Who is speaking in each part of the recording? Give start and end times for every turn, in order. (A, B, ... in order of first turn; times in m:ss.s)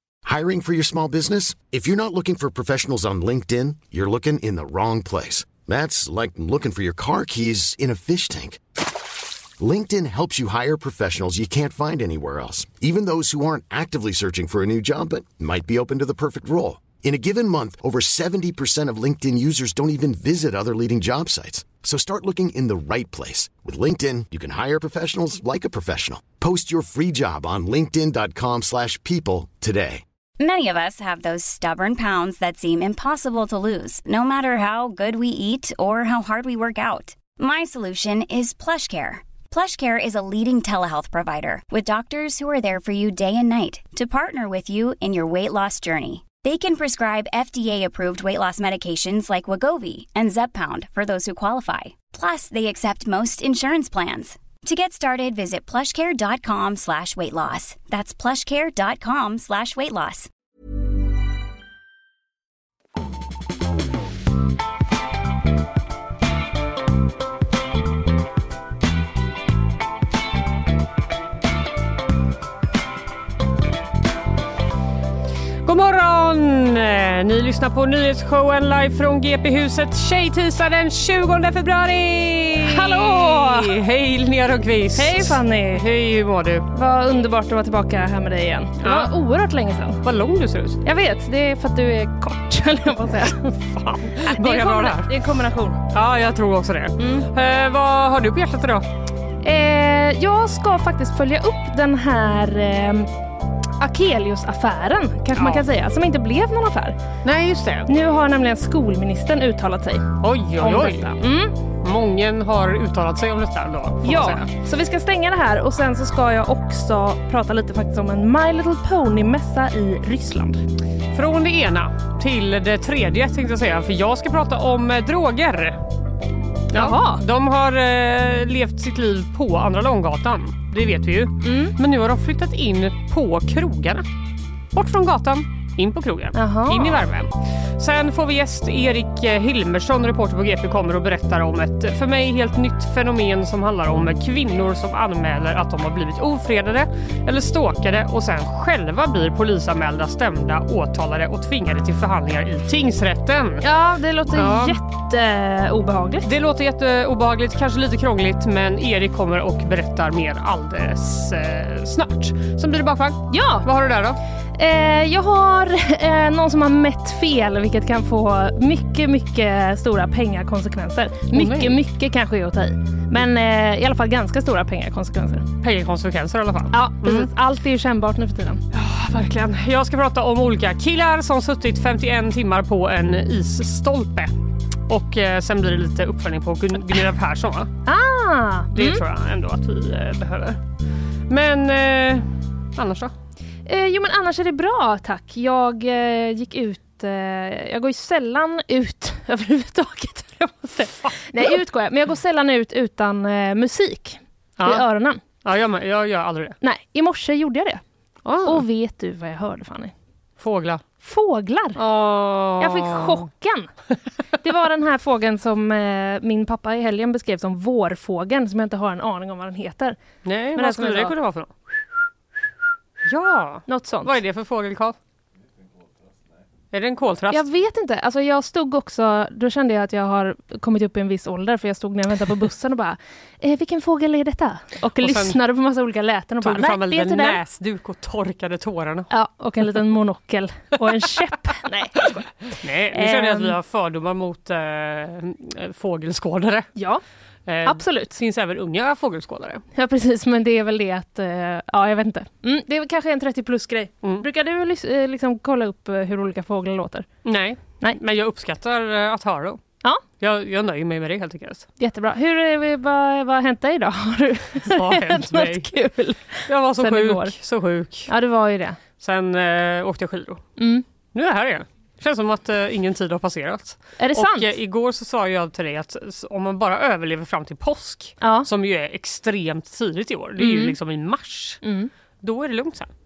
0:00.2-0:08.6 A
0:09.6-0:30.0 A
0:30.4-1:00.3 B
1:15.6-1:26.7 C
1:22.6-1:23.8 D
1:24.9-1:25.8 D
1:26.7-1:30.0 D
1:28.8-1:29.1 C
1:30.0-1:30.8 C
1:30.8-1:33.5 D
1:33.5-1:35.1 C
1:34.2-1:35.8 D
1:35.9-1:38.8 C
1:37.0-1:37.3 D
1:39.4-1:43.1 D
1:43.8-1:47.0 D
1:45.3-1:45.6 C
1:47.2-1:47.9 C
1:47.9-1:51.6 D
1:50.2-1:51.1 C
1:51.8-1:54.5 C
1:54.0-2:00.6 D
2:01.1-2:05.8 C
2:06.7-2:14.0 C
2:06.7-2:07.2 D
2:11.4-2:11.7 D
2:14.7-2:33.6 C
2:16.3-2:17.0 D
2:33.6-2:36.3 D
2:34.3-2:34.8 C
2:36.2-2:44.2 C
2:43.3-2:43.7 D
2:44.6-2:55.5 D
2:51.3-2:51.8 C
2:55.6-2:57.3 C
2:56.7-2:58.6 D
2:58.7-3:04.3 C
3:04.9-3:07.7 C
3:07.8-3:09.0 D
3:08.7-3:10.6 C
3:11.3-3:13.1 C
3:13.7-3:25.2 D
3:21.1-3:21.5 C
3:24.6-3:24.8 C
3:25.4-3:26.6 C
3:26.6-3:27.8 D
3:28.2-3:28.6 C
3:28.4-3:29.9 D
3:30.4-3:30.8 C
3:31.0-3:31.8 D
3:31.8-3:33.2 C
3:32.6-3:33.7 D
3:34.4-3:40.0 D
3:40.2-3:41.5 C
3:40.5-3:41.1 D
3:43.0-3:45.0 C
3:43.7-3:44.1 D
3:46.7-3:47.4 C
3:47.3-3:57.4 D
3:55.0-3:55.4 C
3:56.4-3:59.1 C
3:59.1-4:03.5 D
4:02.6-4:06.7 C
4:06.8-4:07.0 D
4:07.5-4:09.6 C
4:07.6-4:08.2 D
4:09.7-4:17.1 D
4:17.2-4:19.6 C
4:20.2-4:21.7 C
4:21.8-4:27.3 D
4:24.6-4:25.7 C
4:26.5-4:28.1 C
4:28.1-4:28.8 D
4:29.0-4:30.5 C
4:30.6-4:30.8 D
4:31.1-4:41.6 C
4:34.0-4:34.5 D
4:38.2-4:38.5 D
4:40.4-4:40.7 D
4:41.6-4:41.9 D
4:42.2-4:42.9 C